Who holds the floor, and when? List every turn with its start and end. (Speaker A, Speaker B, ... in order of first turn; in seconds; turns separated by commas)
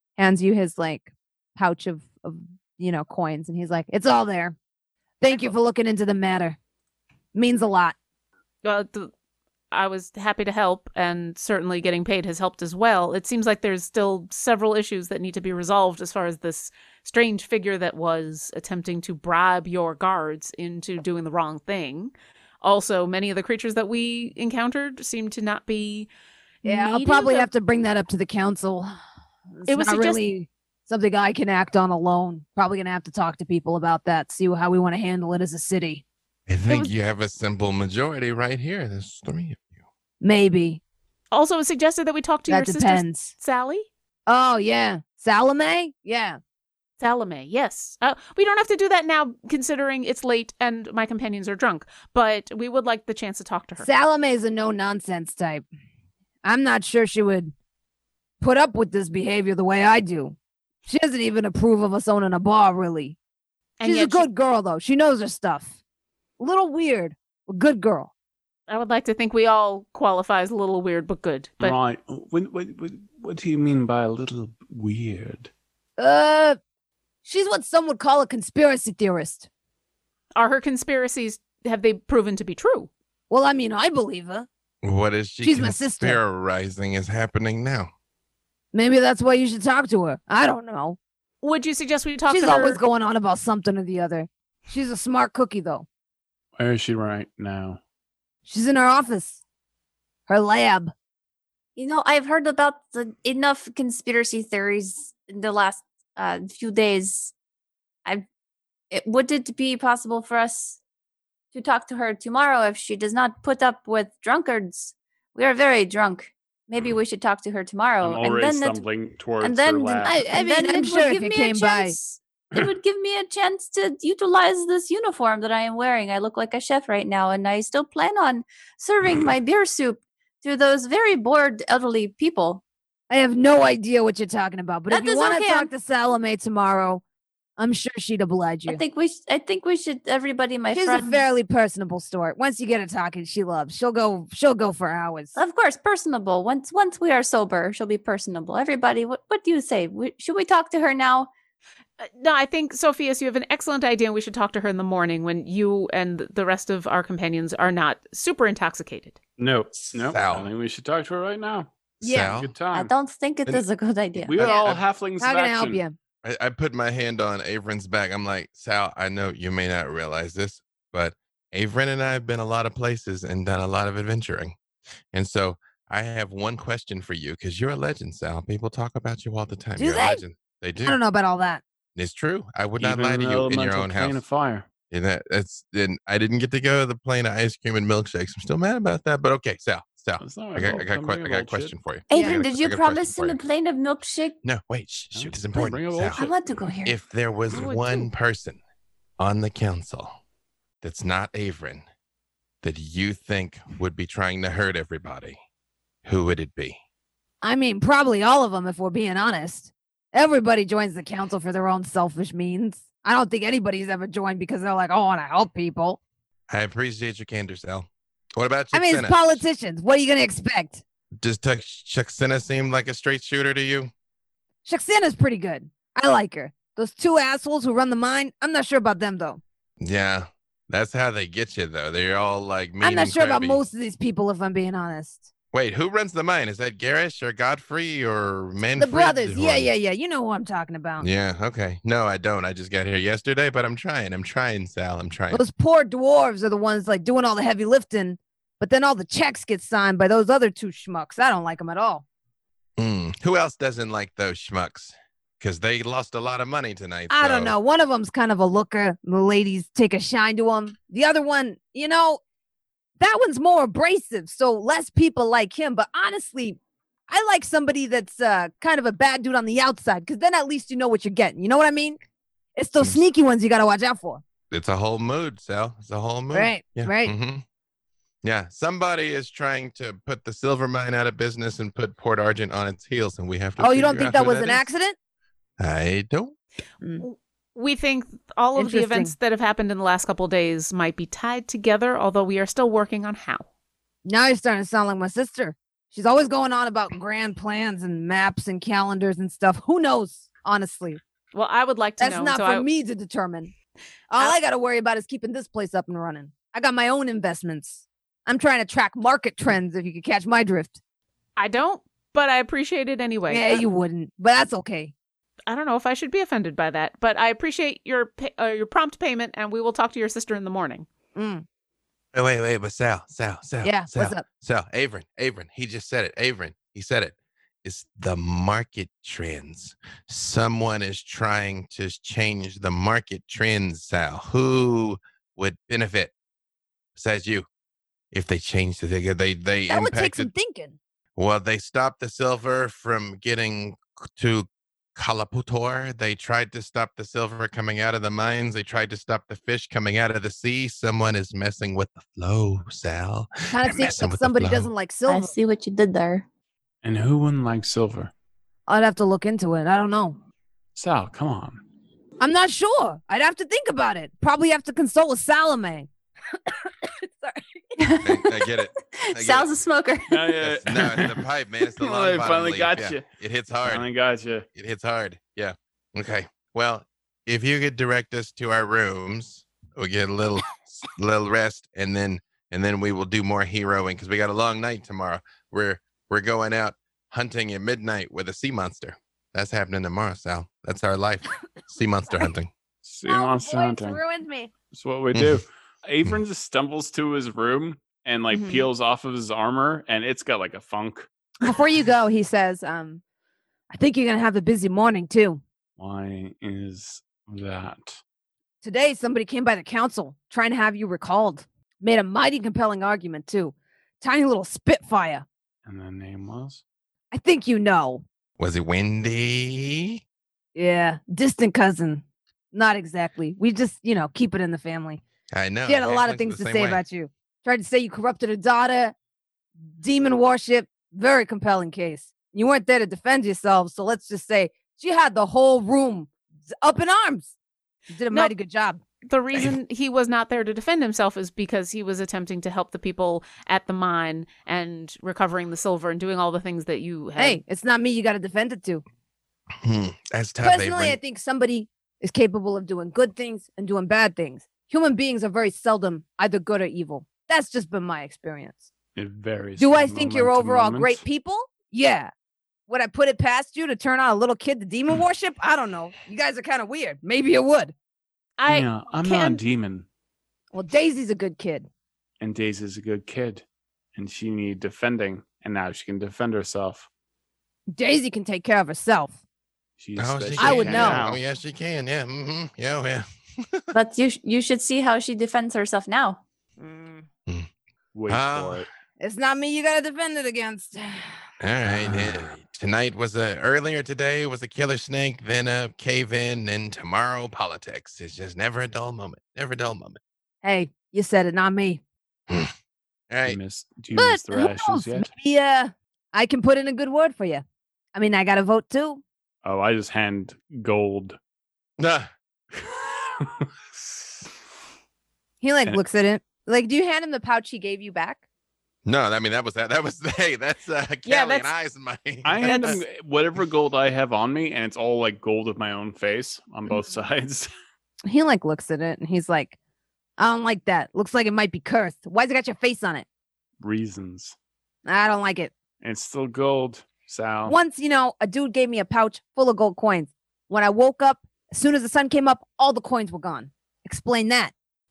Speaker A: 0.2-4.6, Speaker A: 5.2-6.6, Speaker A: 7.3-8.0, Speaker B: 8.6-9.1, Speaker B: 9.7-26.1, Speaker B: 26.6-27.5, Speaker A: 26.6-29.0, Speaker A: 29.6-36.0, Speaker B: 29.7-30.2, Speaker C: 36.5-39.7, Speaker B: 36.7-36.9, Speaker A: 40.2-40.8, Speaker B: 41.3-43.9, Speaker A: 42.5-43.3, Speaker A: 44.3-46.4, Speaker B: 47.0-53.9, Speaker A: 53.8-55.6, Speaker A: 56.4-57.5, Speaker A: 58.4-63.2, Speaker B: 63.8-64.3, Speaker A: 63.8-65.7, Speaker A: 66.4-68.1, Speaker B: 68.7-71.8, Speaker D: 71.6-75.5, Speaker A: 76.0-76.6, Speaker A: 77.2-79.5, Speaker B: 80.3-82.9, Speaker A: 83.3-84.5, Speaker C: 84.8-87.9, Speaker A: 85.4-86.2, Speaker A: 88.7-91.0, Speaker B: 91.4-92.8, Speaker A: 92.3-95.9, Speaker D: 96.6-97.8, Speaker A: 98.5-99.4, Speaker A: 100.3-100.9, Speaker E: 101.8-107.3, Speaker E: 108.9-110.8, Speaker E: 111.5-118.9, Speaker D: 118.0-120.2, Speaker E: 119.4-132.6, Speaker A: 120.0-122.0, Speaker A: 133.1-137.0, Speaker E: 134.9-135.7, Speaker A: 137.6-138.8, Speaker E: 138.7-141.2, Speaker A: 140.7-145.4, Speaker E: 145.4-151.3, Speaker B: 152.0-159.2, Speaker D: 159.4-162.9, Speaker C: 159.7-160.5, Speaker A: 162.0-162.4, Speaker C: 162.0-162.6, Speaker E: 162.7-164.6, Speaker D: 164.2-165.8, Speaker C: 164.4-164.8, Speaker A: 165.2-165.9, Speaker C: 166.2-174.6, Speaker C: 175.1-181.0, Speaker A: 179.8-180.2, Speaker A: 180.8-181.6, Speaker C: 181.9-184.2, Speaker D: 182.8-184.7, Speaker C: 184.9-193.4, Speaker D: 190.2-191.7, Speaker E: 192.1-194.4, Speaker A: 192.1-192.4, Speaker C: 194.4-196.2, Speaker D: 195.1-196.3, Speaker E: 196.1-197.0, Speaker C: 196.8-198.6, Speaker B: 197.5-198.1, Speaker C: 199.2-200.1, Speaker C: 200.8-201.8, Speaker C: 202.6-205.4, Speaker C: 206.1-206.8, Speaker A: 207.4-216.0, Speaker C: 216.5-219.4, Speaker A: 218.7-220.8, Speaker C: 221.1-223.9, Speaker A: 224.7-229.4, Speaker C: 229.8-233.6, Speaker A: 232.8-235.3, Speaker C: 235.5-239.7, Speaker A: 238.8-241.1, Speaker C: 241.0-245.4, Speaker A: 245.3-252.0, Speaker C: 252.8-257.5, Speaker A: 257.1-262.2, Speaker A: 263.0-272.0, Speaker A: 272.6-274.2, Speaker C: 274.5-277.4, Speaker A: 276.3-277.1, Speaker C: 278.2-284.7, Speaker A: 283.6-285.0, Speaker C: 285.6-286.4, Speaker B: 287.0-293.5, Speaker A: 288.6-289.1, Speaker A: 294.1-301.0, Speaker B: 301.3-302.7, Speaker A: 302.0-303.5, Speaker A: 304.1-310.8, Speaker B: 311.4-313.6, Speaker A: 313.3-314.9, Speaker B: 315.5-320.9, Speaker A: 321.2-321.4, Speaker C: 322.1-336.1, Speaker A: 323.6-324.2, Speaker C: 337.0-337.5, Speaker C: 338.1-340.3, Speaker A: 339.7-340.8, Speaker C: 341.2-354.7, Speaker A: 353.5-355.3, Speaker E: 355.1-356.3, Speaker D: 356.8-358.1, Speaker A: 358.7-360.2, Speaker D: 360.8-361.6, Speaker A: 362.2-365.9, Speaker A: 366.5-367.4, Speaker E: 367.8-370.4, Speaker C: 368.0-369.5, Speaker D: 370.1-371.2, Speaker C: 370.4-373.9, Speaker D: 371.8-373.1, Speaker D: 373.6-374.5, Speaker C: 374.5-392.5, Speaker D: 392.8-394.0, Speaker A: 393.1-394.5, Speaker D: 394.7-401.1, Speaker C: 395.1-395.4, Speaker A: 398.3-398.7, Speaker A: 401.4-403.0, Speaker A: 403.7-405.4, Speaker D: 405.8-408.0, Speaker A: 408.6-415.3, Speaker D: 415.7-416.6, Speaker A: 417.1-418.0, Speaker C: 418.4-420.0, Speaker A: 420.6-425.0, Speaker C: 425.3-426.8, Speaker A: 425.7-428.9, Speaker A: 429.8-436.1, Speaker A: 436.6-437.3, Speaker A: 437.9-438.8, Speaker B: 439.1-447.4, Speaker A: 447.2-448.8, Speaker C: 449.6-451.0, Speaker A: 450.4-458.7, Speaker D: 459.0-461.0, Speaker A: 459.6-462.1, Speaker A: 462.7-467.7, Speaker B: 468.4-469.4, Speaker D: 468.5-469.9, Speaker A: 470.5-471.7, Speaker D: 472.2-476.9, Speaker A: 477.7-479.1, Speaker D: 479.8-481.2, Speaker C: 480.0-483.7, Speaker A: 480.4-481.1, Speaker E: 483.7-486.2, Speaker A: 486.6-487.1, Speaker D: 487.9-488.7, Speaker C: 488.1-488.7, Speaker A: 489.0-491.2, Speaker C: 491.4-500.0, Speaker D: 491.7-492.2, Speaker A: 500.4-501.8, Speaker C: 503.1-503.4, Speaker D: 503.2-505.1, Speaker A: 503.9-507.4, Speaker A: 507.9-509.0, Speaker D: 509.4-511.2, Speaker C: 511.8-512.1, Speaker D: 513.2-513.5, Speaker A: 515.4-518.2, Speaker C: 518.9-522.8, Speaker B: 521.0-521.5, Speaker D: 522.2-527.5, Speaker B: 522.4-522.8, Speaker A: 528.1-529.6, Speaker A: 530.2-533.0, Speaker D: 533.6-534.4, Speaker A: 534.9-535.5, Speaker D: 535.8-537.6, Speaker A: 537.5-544.5